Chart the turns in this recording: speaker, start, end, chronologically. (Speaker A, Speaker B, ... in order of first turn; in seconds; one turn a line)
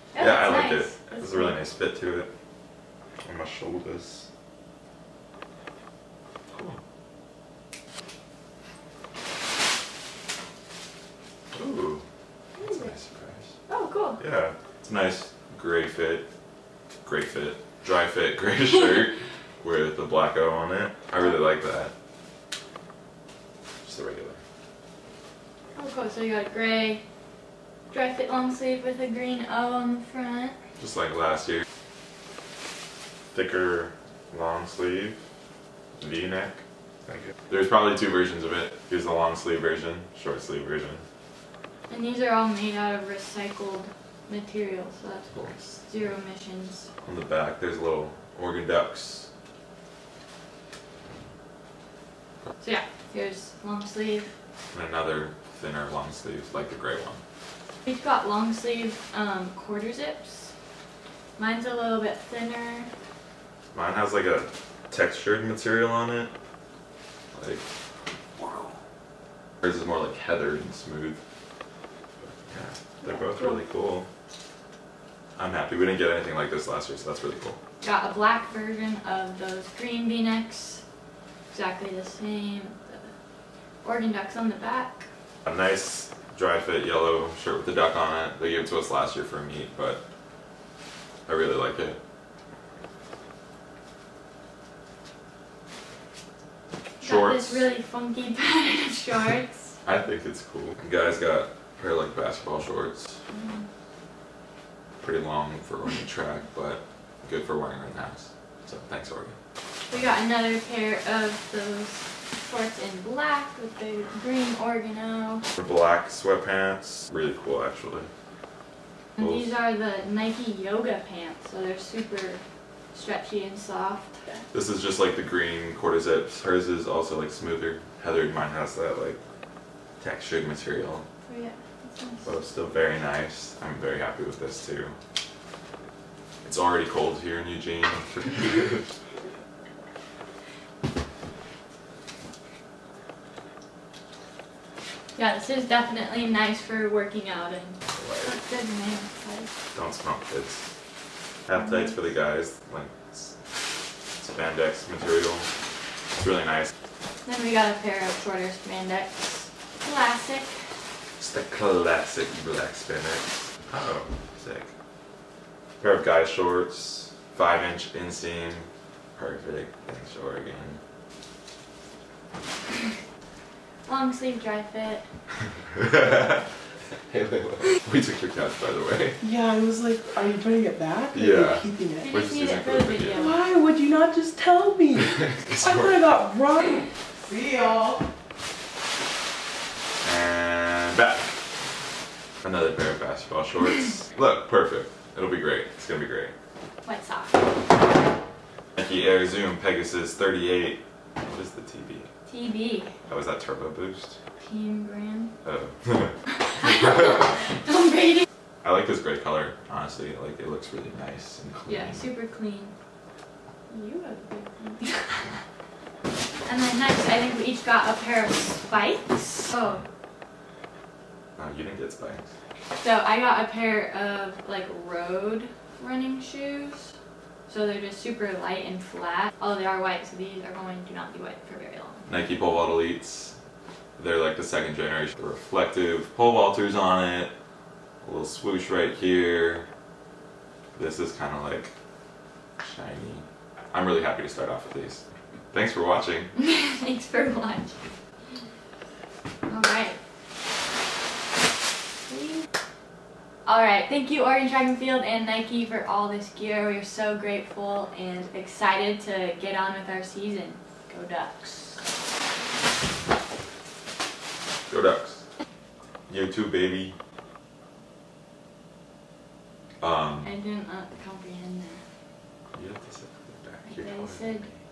Speaker A: 0.1-1.6
Speaker B: 0.2-2.3
Speaker B: 3.2-4.3
Speaker B: 6.5-6.8
Speaker B: 11.5-12.0
Speaker A: 12.6-12.9
Speaker B: 12.6-13.5
Speaker A: 13.7-14.2
Speaker B: 14.2-16.3
Speaker B: 17.1-21.9
Speaker B: 23.9-24.4
Speaker A: 25.8-27.0
Speaker A: 27.9-30.6
Speaker B: 30.8-31.6
Speaker B: 33.3-35.2
Speaker B: 36.0-41.0
Speaker A: 41.9-46.9
Speaker B: 45.3-45.8
Speaker B: 47.0-49.3
Speaker A: 52.6-54.3
Speaker B: 54.7-57.2
Speaker A: 57.9-60.5
Speaker A: 61.4-62.9
Speaker B: 63.7-66.3
Speaker B: 67.3-67.6
Speaker B: 68.4-68.7
Speaker B: 69.6-71.2
Speaker B: 72.2-74.1
Speaker A: 73.0-73.6
Speaker B: 75.4-77.6
Speaker A: 77.8-80.8
Speaker A: 81.5-83.1
Speaker A: 83.8-85.1
Speaker B: 85.5-90.0
Speaker B: 91.3-92.0
Speaker B: 97.0-97.7
Speaker A: 97.0-99.8
Speaker B: 99.8-103.2
Speaker A: 103.3-103.7
Speaker B: 105.0-109.4
Speaker A: 109.9-115.5
Speaker B: 115.5-118.1
Speaker A: 119.2-122.4
Speaker A: 122.9-124.4
Speaker B: 124.5-129.2
Speaker B: 130.0-131.1
Speaker A: 131.3-132.3
Speaker B: 132.2-135.0
Speaker B: 136.4-138.9
Speaker A: 145.2-149.5
Speaker B: 147.9-148.4
Speaker B: 149.7-150.7
Speaker B: 151.5-153.4
Speaker A: 151.5-152.0
Speaker B: 154.2-155.5
Speaker B: 156.2-156.7
Speaker A: 157.2-160.7
Speaker B: 161.2-164.7
Speaker B: 165.8-170.8
Speaker A: 173.9-175.1
Speaker B: 175.7-176.4
Speaker B: 177.1-179.2
Speaker C: 179.2-182.1
Speaker B: 181.1-183.3
Speaker A: 182.0-183.4
Speaker C: 183.1-188.0
Speaker B: 184.9-186.1
Speaker B: 190.0-191.3
Speaker B: 192.4-196.3
Speaker A: 196.8-197.4
Speaker B: 198.8-202.1
Speaker A: 202.3-202.9
Speaker B: 203.1-204.2
Speaker A: 204.4-205.3
Speaker B: 205.4-207.4
Speaker A: 206.4-208.2
Speaker B: 208.6-212.1
Speaker A: 211.7-212.7
Speaker A: 213.7-215.4
Speaker A: 216.5-219.8
Speaker B: 219.6-219.9
Speaker B: 221.4-222.3
Speaker A: 222.8-226.9
Speaker A: 227.5-232.0
Speaker B: 232.1-233.4
Speaker B: 234.0-237.3
Speaker B: 238.0-239.7
Speaker B: 240.8-241.7
Speaker B: 242.6-246.3
Speaker A: 246.4-247.8
Speaker A: 249.5-250.0
Speaker A: 252.1-252.5
Speaker A: 253.5-261.8
Speaker B: 264.7-265.2
Speaker B: 266.1-267.0
Speaker B: 269.8-270.3
Speaker A: 270.2-271.8
Speaker B: 272.5-274.6
Speaker A: 273.6-274.5